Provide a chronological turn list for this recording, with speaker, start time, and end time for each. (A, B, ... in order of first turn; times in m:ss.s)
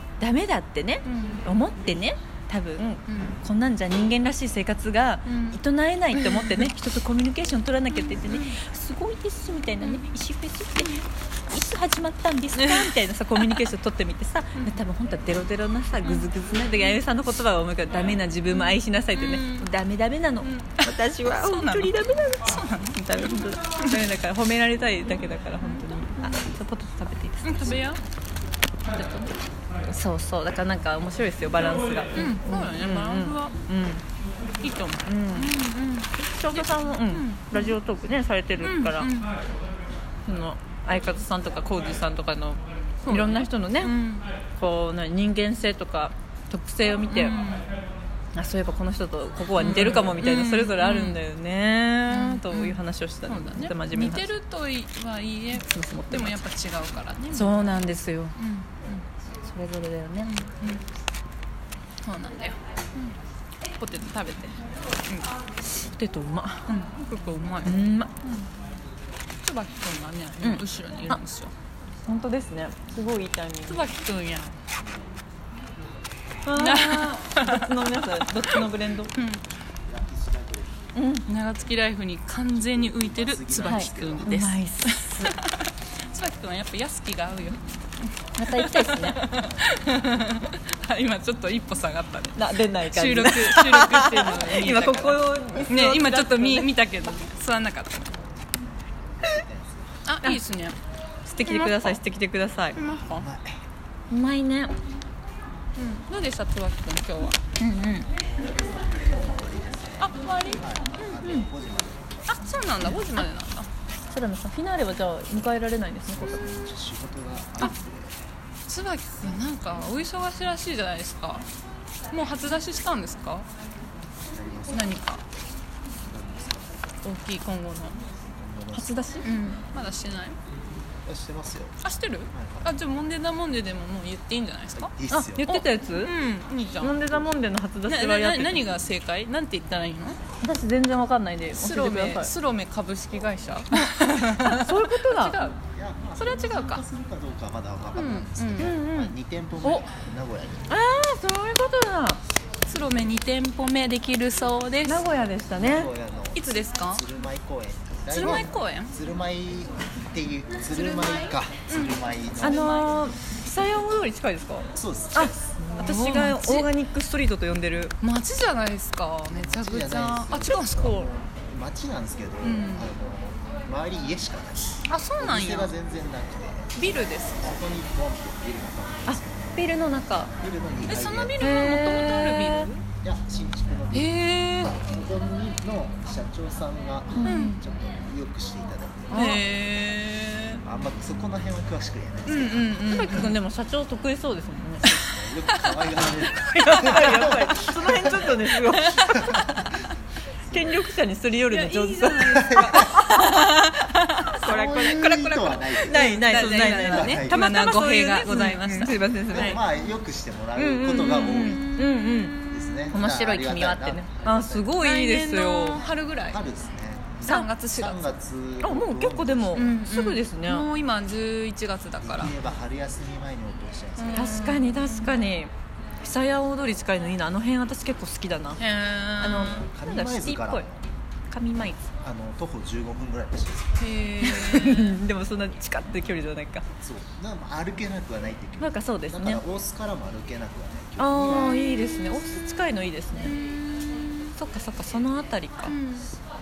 0:00.2-0:27.8 A
0:01.1-0:01.4 B
0:03.1-0:03.4 B
0:05.3-0:05.6 B
0:06.1-0:06.7 B
0:08.0-0:08.6 B
0:12.6-0:13.0 B
0:16.0-0:17.0 B
0:18.5-0:19.7 B
0:20.4-0:23.0 B
0:25.6-0:26.4 B
0:27.4-0:28.0 B
0:28.9-0:29.4 B
0:29.9-0:34.0 A
0:32.2-0:33.6 B
0:34.6-0:37.8 B
0:35.1-0:35.6 A
0:36.2-0:39.1 A
0:38.6-0:39.3 B
0:40.2-0:44.0 A
0:43.1-0:44.3 B
0:44.6-0:47.4 A
0:47.1-0:47.7 B
0:48.4-0:54.3 A
0:49.6-0:51.2 B
0:52.1-0:57.6 B
0:55.5-0:56.4 A
0:57.3-0:58.4 A
0:58.4-0:59.0 B
0:59.4-1:00.3 A
1:00.2-1:00.8 B
1:02.0-1:03.2 B
1:03.8-1:04.6 B
1:05.1-1:05.3 B
1:05.7-1:06.7 A
1:06.7-1:08.5 B
1:07.6-1:08.1 A
1:09.4-1:11.5 B
1:10.4-1:11.2 A
1:12.1-1:13.8 A
1:13.7-1:14.5 B
1:16.4-1:19.1 A
1:16.6-1:18.6 B
1:19.9-1:20.8 C
1:21.0-1:21.3 A
1:21.3-1:27.6 B
1:22.5-1:24.5 C
1:23.6-1:25.4 A
1:28.4-1:29.2 A
1:28.4-1:38.2 B
1:29.4-1:29.8 C
1:32.4-1:36.7 A
1:39.2-1:40.0 C
1:40.1-1:40.8 B
1:41.3-1:42.8 A
1:41.4-1:42.0 B
1:42.8-1:43.3 B
1:42.9-1:43.6 C
1:44.1-1:44.7 A
1:45.8-1:47.4 B
1:47.6-1:48.1 A
1:48.9-1:52.1 C
1:50.0-1:51.3 B
1:52.3-1:53.7 B
1:54.1-1:56.5 A
1:56.1-1:58.2 C
1:58.7-2:01.5 B
2:02.1-2:03.5 B
2:04.3-2:05.2 C
2:04.7-2:05.2 B
2:06.0-2:06.8 C
2:07.0-2:08.0 B
2:08.4-2:09.0 C
2:08.7-2:09.3 A
2:09.2-2:10.4 B
2:11.0-2:11.8 C
2:11.8-2:17.0 B
2:12.3-2:12.8 C
2:14.7-2:15.5 C
2:15.1-2:16.1 A
2:16.8-2:18.7 A
2:17.9-2:20.2 B
2:20.4-2:22.3 A
2:21.5-2:25.6 B
2:24.4-2:25.5 A
2:25.7-2:30.7 C
2:26.2-2:26.9 B
2:28.0-2:28.7 B
2:28.6-2:29.8 A
2:30.7-2:32.2 A
2:32.7-2:35.0 B
2:34.8-2:35.9 A
2:35.1-2:42.8 C
2:36.4-2:37.0 B
2:38.1-2:39.0 B
2:38.2-2:38.5 A
2:40.7-2:43.0 B
2:42.4-2:48.0 A
2:44.7-2:45.5 C
2:45.8-2:46.7 B
2:48.0-2:51.1 B
2:49.2-2:59.6 C
2:52.4-2:52.9 B
2:54.9-2:55.8 B
2:56.8-2:57.6 B
2:59.1-3:00.3 A
3:00.4-3:01.4 C
3:00.9-3:02.8 B
3:01.4-3:02.7 A
3:03.0-3:09.2 C
3:03.9-3:04.8 B
3:07.1-3:07.6 A
3:07.2-3:07.6 B
3:09.1-3:10.6 B
3:09.1-3:09.4 A
3:10.6-3:13.3 C
3:12.3-3:13.4 B
3:12.9-3:15.0 A
3:15.0-3:18.3 C
3:15.5-3:15.9 B
3:16.4-3:19.0 A
3:16.7-3:17.2 B
3:18.5-3:19.4 B
3:19.0-3:19.8 C
3:20.5-3:20.9 C
3:20.5-3:23.6 A
3:21.5-3:29.0 B
3:22.4-3:22.9 C
3:24.4-3:25.2 A
3:24.4-3:27.4 C
3:25.8-3:29.6 A
3:29.3-3:31.8 C
3:30.6-3:32.4 A
3:31.3-3:31.7 B
3:32.5-3:34.8 C
3:32.9-3:35.8 A
3:34.8-3:36.4 B
3:36.3-3:39.7 C
3:37.2-3:38.2 B
3:38.6-3:40.7 A
3:39.6-3:42.3 B
3:42.0-3:44.5 C
3:44.0-3:45.2 B
3:44.1-3:48.6 A
3:48.6-3:49.7 B
3:49.2-3:50.7 A
3:49.5-3:50.8 C
3:51.3-3:51.8 A
3:52.0-3:53.8 C
3:53.8-3:55.0 B
3:54.2-3:56.7 A
3:56.8-4:01.6 C
3:58.6-3:59.4 A
4:01.0-4:03.4 A
4:03.2-4:04.3 B
4:04.4-4:05.8 A
4:05.7-4:06.1 B